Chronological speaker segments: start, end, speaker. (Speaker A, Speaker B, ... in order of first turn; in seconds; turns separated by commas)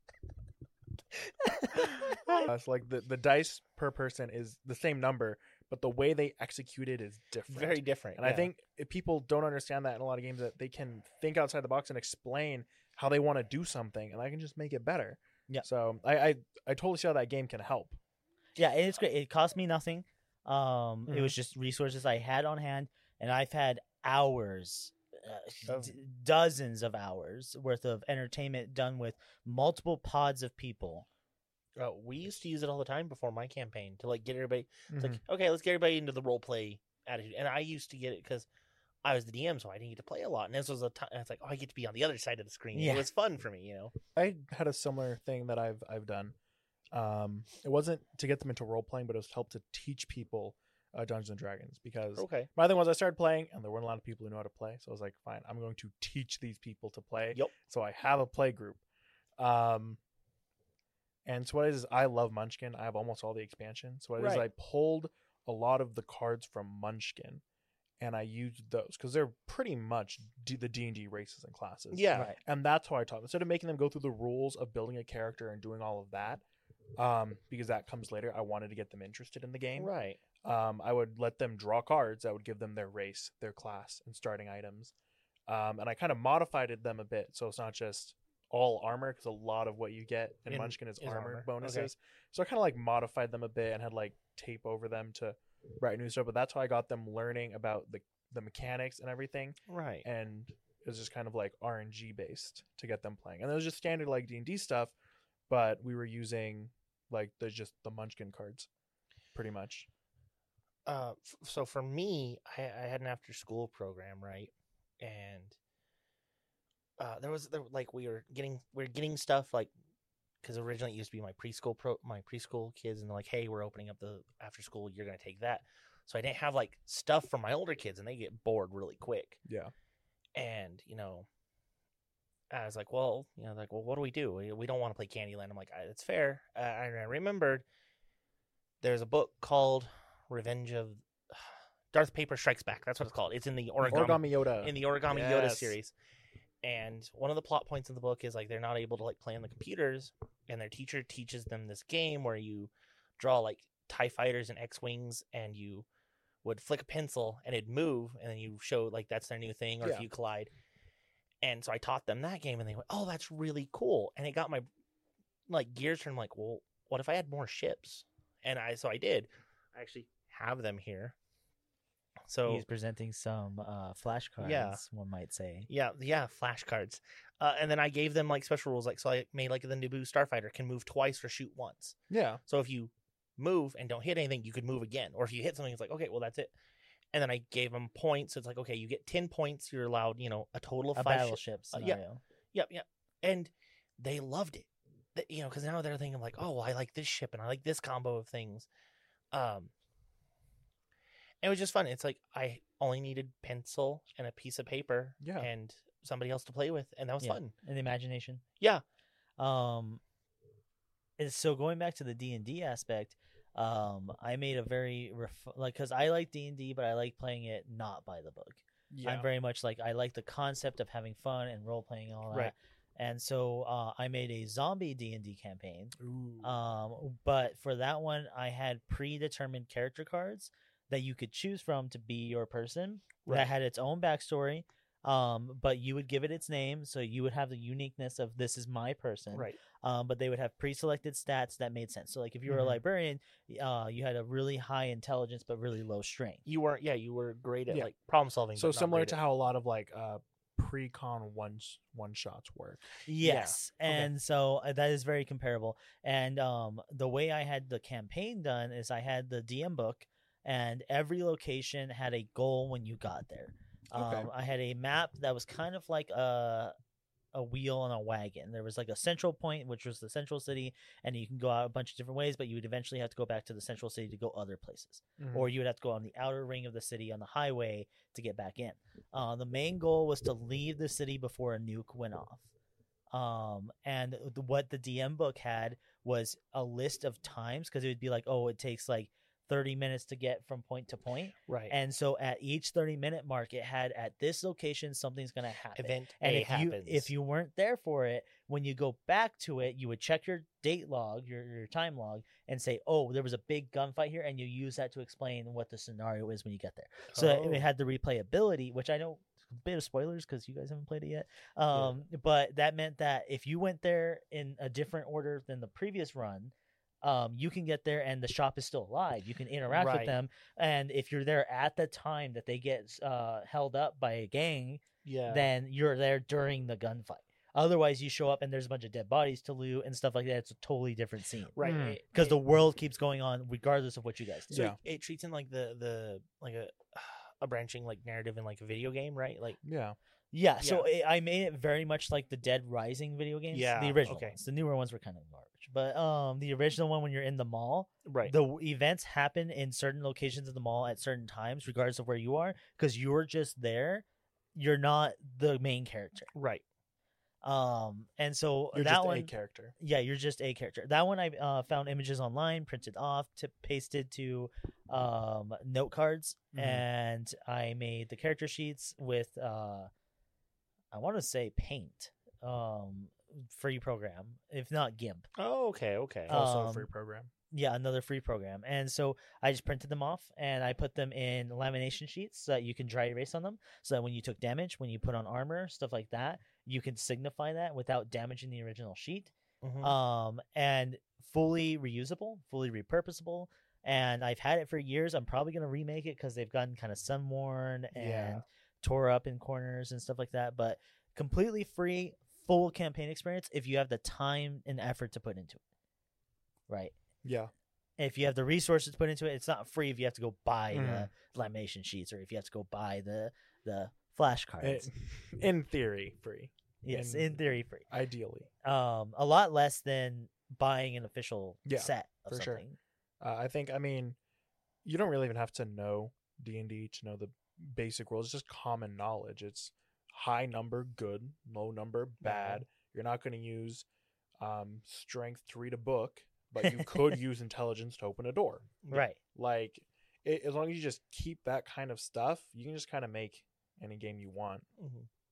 Speaker A: 1.3-2.5, Speaker B: 2.3-18.0, Speaker C: 7.5-8.5, Speaker A: 18.6-31.1, Speaker B: 21.1-21.4, Speaker C: 25.7-25.9, Speaker C: 31.8-38.5, Speaker B: 34.9-35.2, Speaker C: 39.0-43.9, Speaker A: 42.7-43.1, Speaker B: 44.1-46.4, Speaker B: 46.9-58.8, Speaker C: 52.2-52.5, Speaker B: 59.4-60.0, Speaker B: 61.3-67.4, Speaker C: 64.2-64.5, Speaker B: 68.0-76.4, Speaker C: 71.9-72.3, Speaker B: 77.0-79.9, Speaker C: 79.8-80.2, Speaker B: 80.4-84.9, Speaker B: 85.5-105.0, Speaker C: 90.5-91.9, Speaker C: 99.7-100.1, Speaker B: 105.5-108.7, Speaker B: 109.3-109.9, Speaker C: 110.9-115.6, Speaker C: 117.0-119.7, Speaker C: 120.4-129.4, Speaker B: 129.5-129.7, Speaker C: 130.3-131.3, Speaker C: 132.5-137.7, Speaker C: 138.8-145.9, Speaker B: 143.8-145.8, Speaker C: 146.6-155.9, Speaker C: 156.4-160.5, Speaker B: 159.8-160.1, Speaker C: 161.4-164.7, Speaker C: 165.5-171.2, Speaker C: 172.3-172.7, Speaker A: 172.5-175.7, Speaker C: 174.4-174.8, Speaker C: 175.7-182.0, Speaker B: 182.1-182.4, Speaker C: 182.5-186.5, Speaker C: 187.1-192.0, Speaker A: 191.0-192.2, Speaker C: 192.5-198.7, Speaker C: 199.3-199.7, Speaker C: 201.4-207.5, Speaker B: 205.2-205.5, Speaker A: 207.2-208.4, Speaker A: 209.4-210.0, Speaker A: 211.2-246.4, Speaker B: 218.9-219.3, Speaker B: 226.0-226.6, Speaker C: 239.3-239.6, Speaker B: 242.5-242.8, Speaker C: 246.5-249.2, Speaker B: 248.6-252.9, Speaker A: 253.1-266.7, Speaker C: 253.2-254.1, Speaker B: 263.9-264.3, Speaker A: 267.3-282.4, Speaker B: 275.2-275.5, Speaker A: 283.1-331.6, Speaker C: 291.5-291.8, Speaker C: 295.8-297.1, Speaker C: 307.1-307.7, Speaker C: 319.7-320.2, Speaker C: 325.0-325.5, Speaker C: 331.6-332.4, Speaker B: 331.6-332.0, Speaker A: 332.1-334.6, Speaker B: 334.5-334.8, Speaker C: 334.5-339.6, Speaker B: 339.6-340.0, Speaker A: 340.3-356.3, Speaker C: 340.6-340.9, Speaker C: 343.5-344.4, Speaker C: 348.1-348.3, Speaker C: 356.3-356.6, Speaker A: 357.4-369.9, Speaker B: 358.7-359.7, Speaker B: 366.5-366.8, Speaker A: 370.9-375.3, Speaker C: 375.4-376.4, Speaker B: 376.3-377.3, Speaker A: 376.3-376.9, Speaker A: 377.5-405.6, Speaker C: 389.6-390.0, Speaker B: 397.9-398.4, Speaker A: 406.7-406.9, Speaker B: 407.2-407.5, Speaker A: 408.0-414.9, Speaker B: 410.7-411.1, Speaker B: 414.6-418.5, Speaker A: 416.8-417.9, Speaker A: 418.6-422.8, Speaker B: 421.7-422.6, Speaker B: 423.2-424.2, Speaker B: 424.8-433.9, Speaker A: 432.3-432.5, Speaker B: 434.4-438.8, Speaker A: 436.6-437.1, Speaker A: 438.9-439.2, Speaker B: 439.3-444.7, Speaker C: 444.8-445.1